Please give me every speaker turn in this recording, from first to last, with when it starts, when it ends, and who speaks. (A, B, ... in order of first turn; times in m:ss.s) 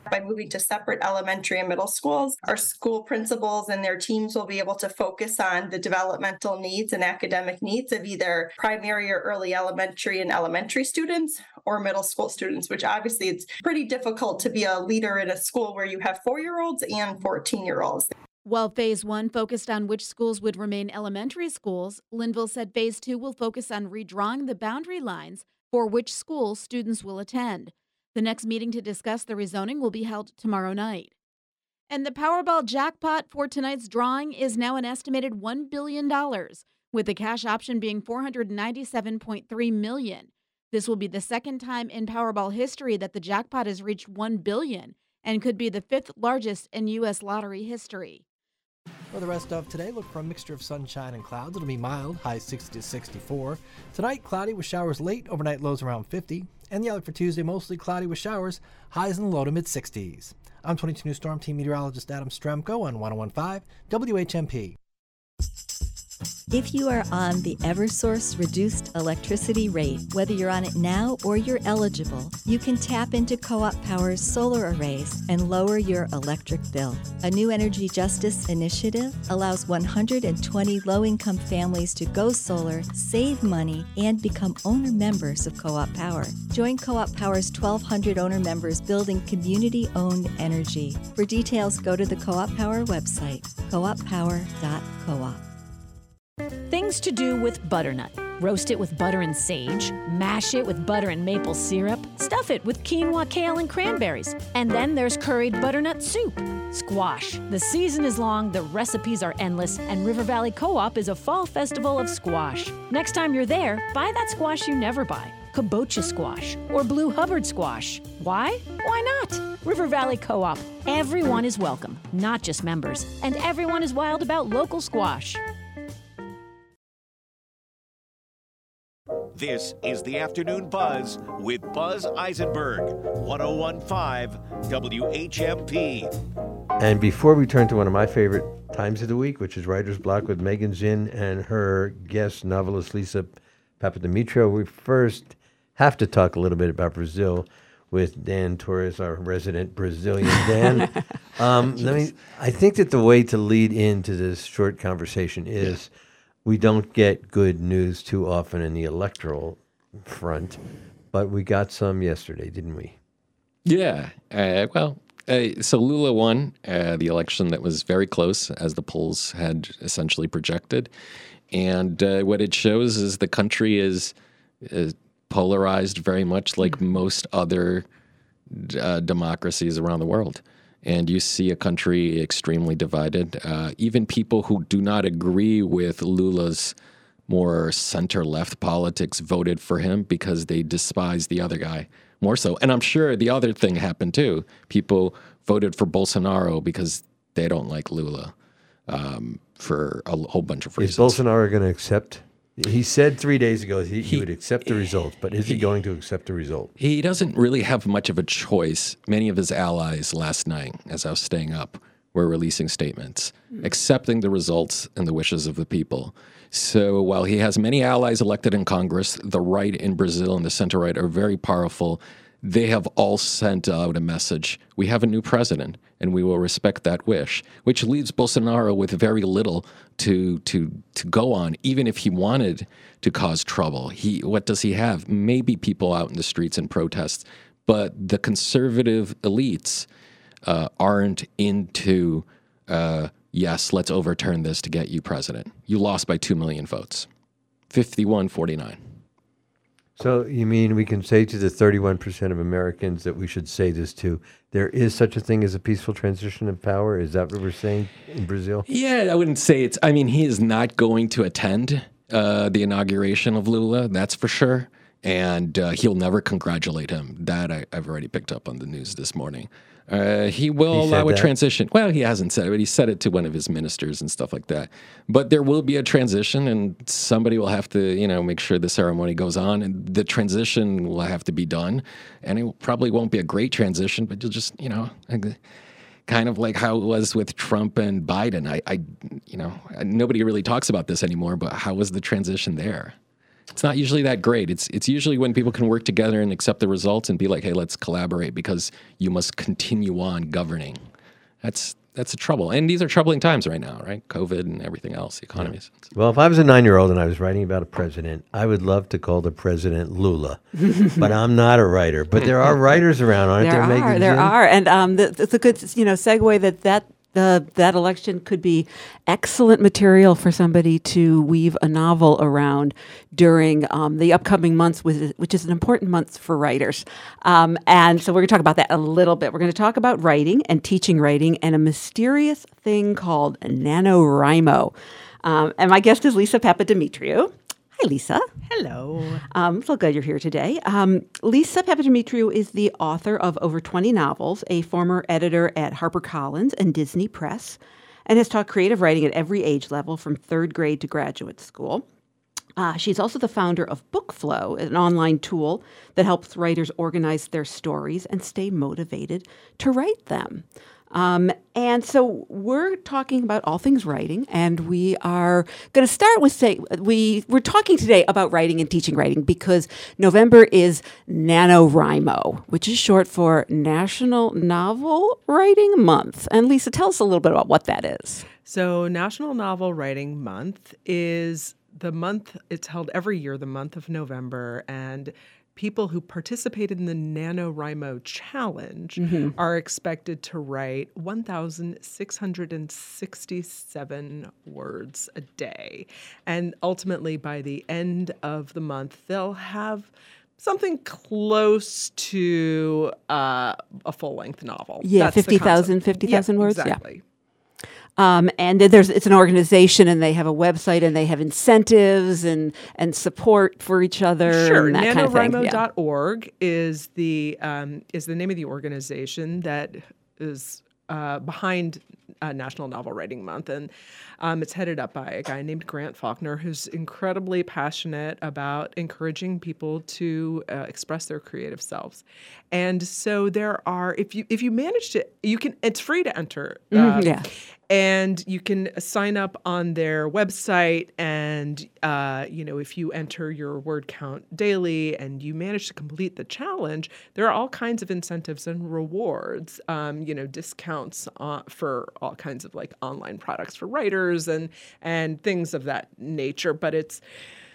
0:00.1-0:18.1 A
0:18.4-0:31.1 B
0:31.9-0:48.2 B
0:49.1-1:04.8 C
1:06.5-1:35.4 D
1:36.7-2:05.4 E
2:09.3-2:16.1 F
2:16.8-2:35.9 G
2:30.6-2:30.9 H
2:36.4-2:40.6 G
2:41.1-2:43.0 G
2:43.6-2:50.9 I
2:51.5-2:57.8 I
2:58.5-3:06.7 I
3:07.3-3:18.3 I
3:18.9-3:21.2 I
3:20.8-3:26.7 G
3:26.8-3:59.9 I
4:00.4-4:07.1 I
4:07.7-4:08.8 I
4:10.0-4:18.6 G
4:18.7-4:45.4 I
4:30.7-4:31.3 G
4:46.1-4:52.9 I
4:53.5-5:00.8 I
5:01.4-5:05.8 I
5:05.4-5:10.4 G
5:10.6-5:11.1 H
5:11.0-5:14.3 G
5:12.2-5:12.7 H
5:13.4-5:38.3 H
5:38.4-5:39.2 J
5:39.3-5:51.8 H
5:52.6-6:18.3 H
6:18.4-6:47.0 J
6:29.0-6:29.3 H
6:44.8-6:46.8 H
6:48.0-6:55.6 H
6:54.3-7:37.0 J
7:16.7-7:17.2 H